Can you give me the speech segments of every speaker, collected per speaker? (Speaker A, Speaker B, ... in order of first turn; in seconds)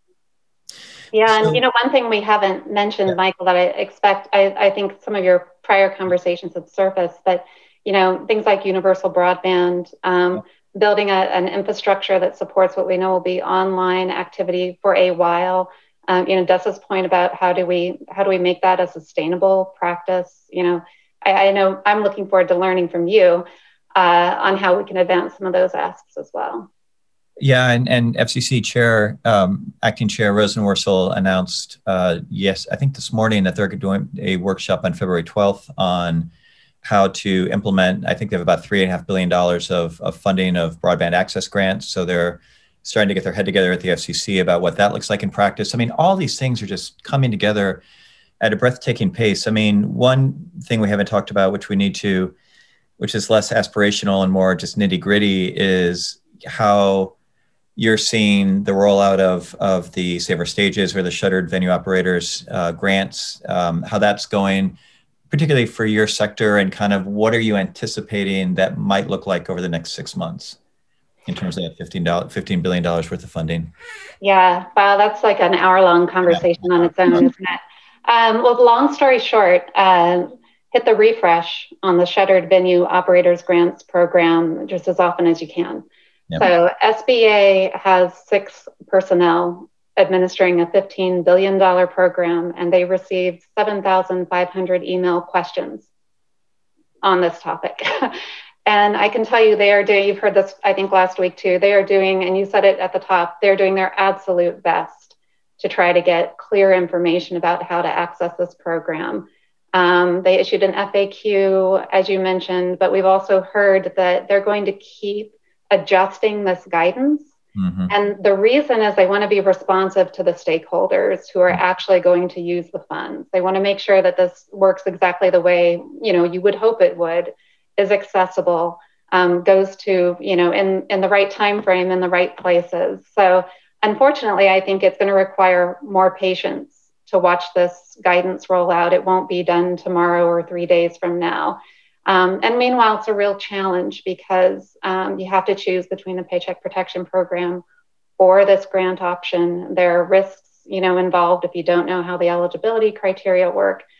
Speaker A: 1.1-26.7, 74.2-85.8, 86.4-95.9, 97.0-98.1, 98.7-117.3, 117.9-147.6, 148.2-153.8
Speaker B: 1.3-1.6, 27.4-36.3, 36.8-47.8, 48.4-52.3, 53.0-57.1, 57.8-64.8, 65.3-70.6, 71.3-73.7, 76.3-77.2, 117.5-117.9